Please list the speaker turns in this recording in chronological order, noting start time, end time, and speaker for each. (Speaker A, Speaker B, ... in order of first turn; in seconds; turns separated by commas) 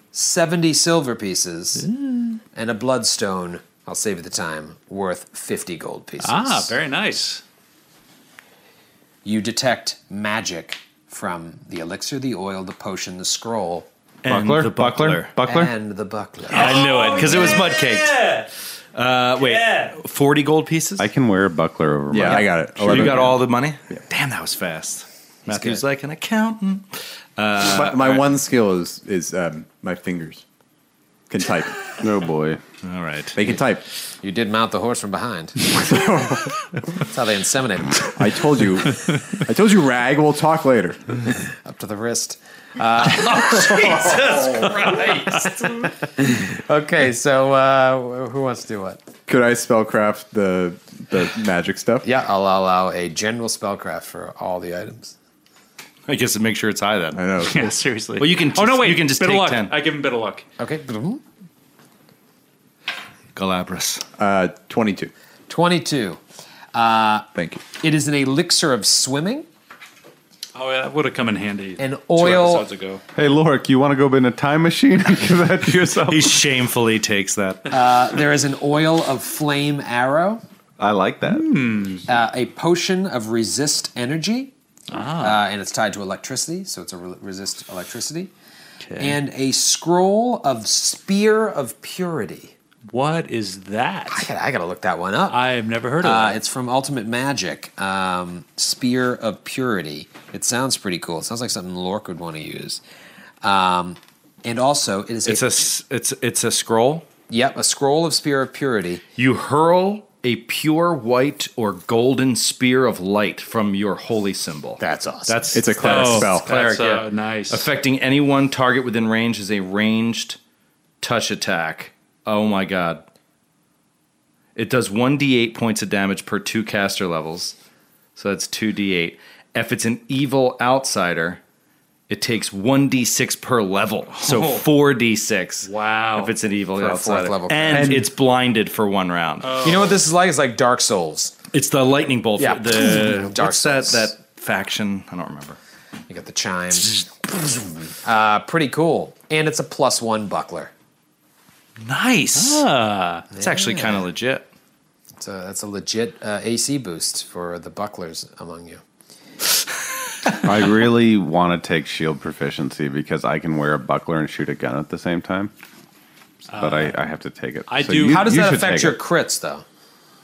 Speaker A: 0.1-1.9, Speaker B: 1.8-2.4, Speaker A: 2.5-6.8, Speaker B: 6.2-7.4, Speaker A: 9.2-13.9, Speaker C: 14.2-15.4, Speaker D: 14.3-15.7, Speaker A: 15.4-17.7, Speaker B: 16.5-18.5, Speaker C: 16.5-18.4, Speaker C: 18.9-21.1, Speaker B: 19.4-19.9, Speaker D: 21.0-23.4, Speaker E: 22.1-23.4, Speaker C: 22.2-28.4, Speaker A: 25.5-25.8, Speaker E: 27.6-30.4, Speaker E: 31.3-31.8, Speaker D: 32.0-32.6, Speaker C: 32.8-33.6, Speaker E: 33.4-33.8, Speaker A: 34.2-35.6, Speaker E: 35.7-36.7, Speaker A: 37.0-38.2, Speaker E: 38.1-41.3, Speaker A: 41.6-49.0, Speaker B: 43.1-45.7, Speaker C: 44.3-45.1, Speaker E: 49.3-52.1, Speaker A: 52.0-55.1, Speaker C: 56.1-57.2, Speaker E: 57.1-57.7, Speaker B: 57.4-60.5, Speaker C: 58.2-59.7, Speaker A: 60.6-61.2, Speaker C: 63.3-64.0, Speaker E: 64.2-65.1, Speaker A: 65.5-66.2, Speaker A: 66.7-67.3, Speaker E: 67.3-67.6, Speaker A: 67.8-69.5, Speaker B: 70.5-73.0, Speaker A: 71.8-72.7, Speaker D: 73.2-76.4, Speaker C: 76.0-77.7, Speaker A: 77.7-80.4, Speaker D: 80.8-81.8, Speaker B: 81.3-82.0, Speaker A: 82.1-84.5, Speaker B: 84.9-85.4, Speaker A: 85.2-88.3, Speaker B: 88.8-89.2, Speaker A: 89.0-92.5, Speaker B: 92.9-94.2, Speaker A: 94.1-95.4, Speaker B: 95.3-96.4, Speaker A: 96.0-102.8, Speaker A: 103.4-105.6, Speaker C: 105.2-107.1, Speaker A: 107.3-109.0, Speaker C: 109.2-120.4, Speaker A: 114.8-115.5, Speaker E: 115.5-116.5, Speaker B: 115.8-117.7, Speaker C: 121.0-123.0, Speaker C: 124.5-127.6, Speaker C: 128.2-131.4, Speaker C: 132.1-139.6, Speaker B: 134.2-134.7, Speaker B: 135.6-136.3, Speaker A: 136.8-138.0, Speaker E: 137.7-138.1, Speaker B: 139.4-140.0, Speaker A: 139.6-141.3, Speaker C: 141.5-145.6, Speaker A: 142.4-144.1, Speaker A: 146.1-150.7, Speaker C: 151.8-152.7, Speaker B: 152.3-153.3, Speaker A: 153.3-154.1, Speaker C: 153.4-154.5, Speaker A: 155.2-158.8, Speaker D: 160.4-165.5, Speaker B: 166.5-167.0, Speaker D: 166.5-169.0, Speaker B: 167.7-168.6, Speaker A: 168.1-169.7